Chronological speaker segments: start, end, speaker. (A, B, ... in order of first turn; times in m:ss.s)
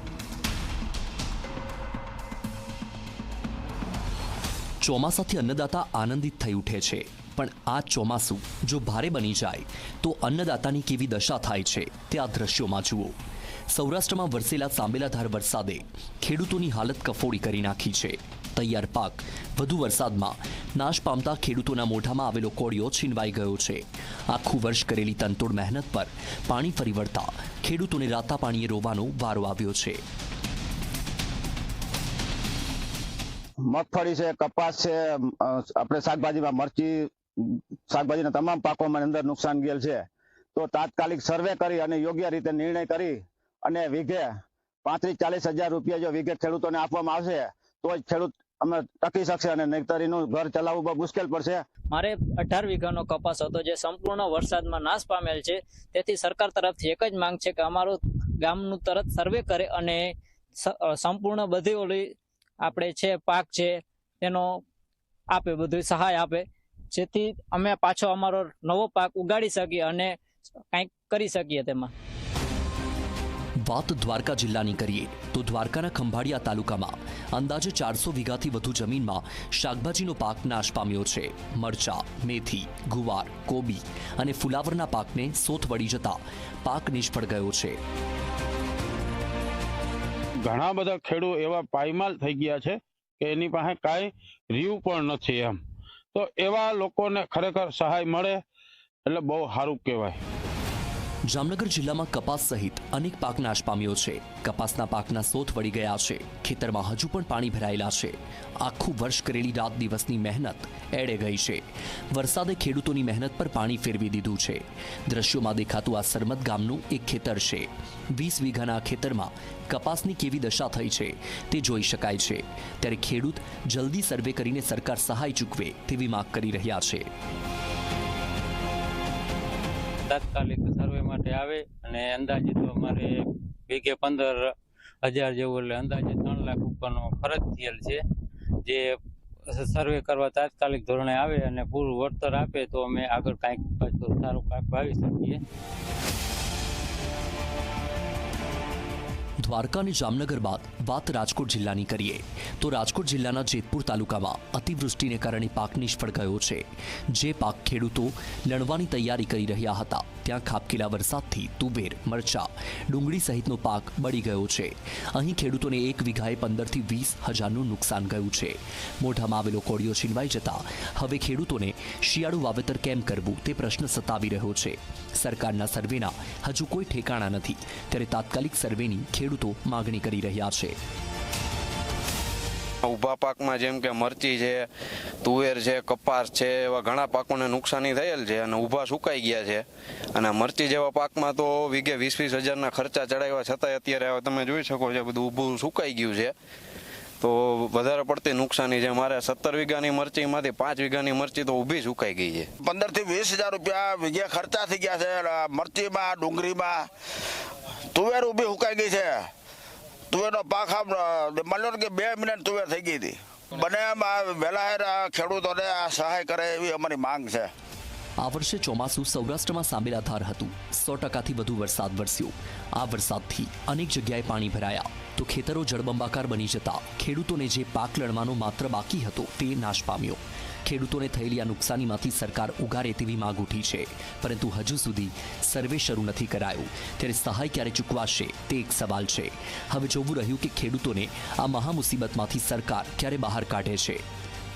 0:04.8-0:13.2 A
0:13.7-0:30.0 A
0:33.6-0:51.6 B
0:51.9-1:04.6 C
1:05.3-1:10.2 C
1:10.7-1:11.9 C
1:13.7-1:27.8 A
1:30.4-1:35.6 D
1:36.1-1:38.4 D
1:39.1-1:40.2 D
1:41.3-2:07.1 A
2:10.1-2:13.2 E
2:13.7-2:14.4 E
2:15.0-2:18.0 E
2:18.6-2:19.0 E
2:19.5-2:25.4 E
2:29.4-3:00.8 A
3:02.8-3:04.7 F
3:05.2-3:16.3 F
3:17.2-3:22.5 F
3:22.6-3:26.9 G
3:27.9-3:29.3 G
3:30.1-3:37.5 G
3:38.2-4:04.0 A